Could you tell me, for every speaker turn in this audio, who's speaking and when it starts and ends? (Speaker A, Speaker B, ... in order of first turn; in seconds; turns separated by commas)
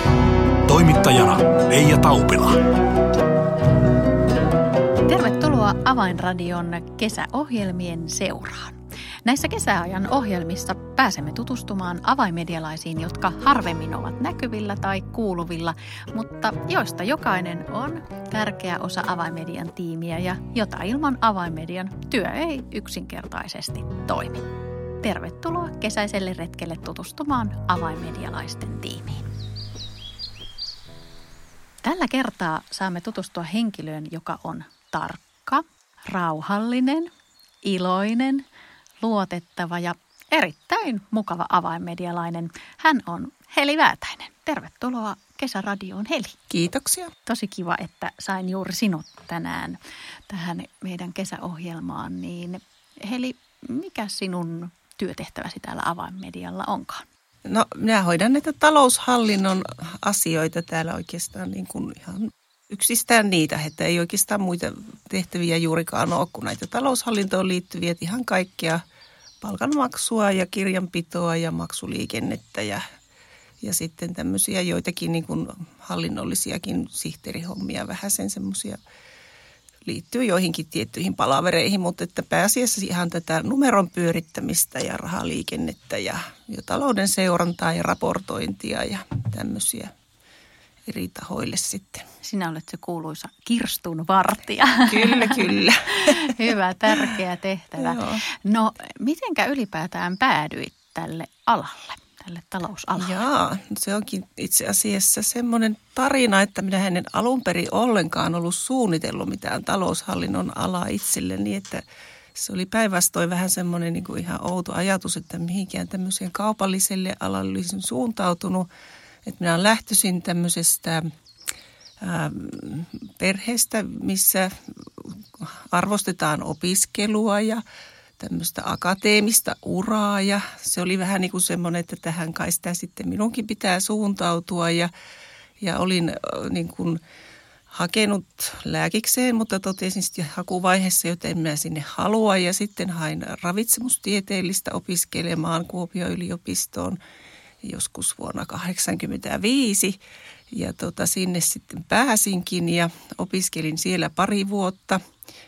Speaker A: 0.7-2.6, Speaker B: 5.0-24.5, Speaker B: 25.0-29.3, Speaker B: 31.8-37.1, Speaker B: 37.6-38.5, Speaker B: 39.0-46.4, Speaker C: 46.5-47.1, Speaker B: 47.3-57.1, Speaker C: 57.5-68.8, Speaker C: 69.4-72.8, Speaker C: 73.6-78.8, Speaker C: 79.8-89.9, Speaker C: 90.9-92.1, Speaker B: 92.2-103.2, Speaker C: 94.9-96.4, Speaker C: 97.8-98.2, Speaker C: 103.0-111.8, Speaker C: 112.3-118.7, Speaker C: 119.3-121.1, Speaker C: 122.0-127.6, Speaker C: 128.2-134.9, Speaker C: 135.6-137.0, Speaker C: 137.7-147.0, Speaker C: 147.6-150.0, Speaker C: 150.5-155.0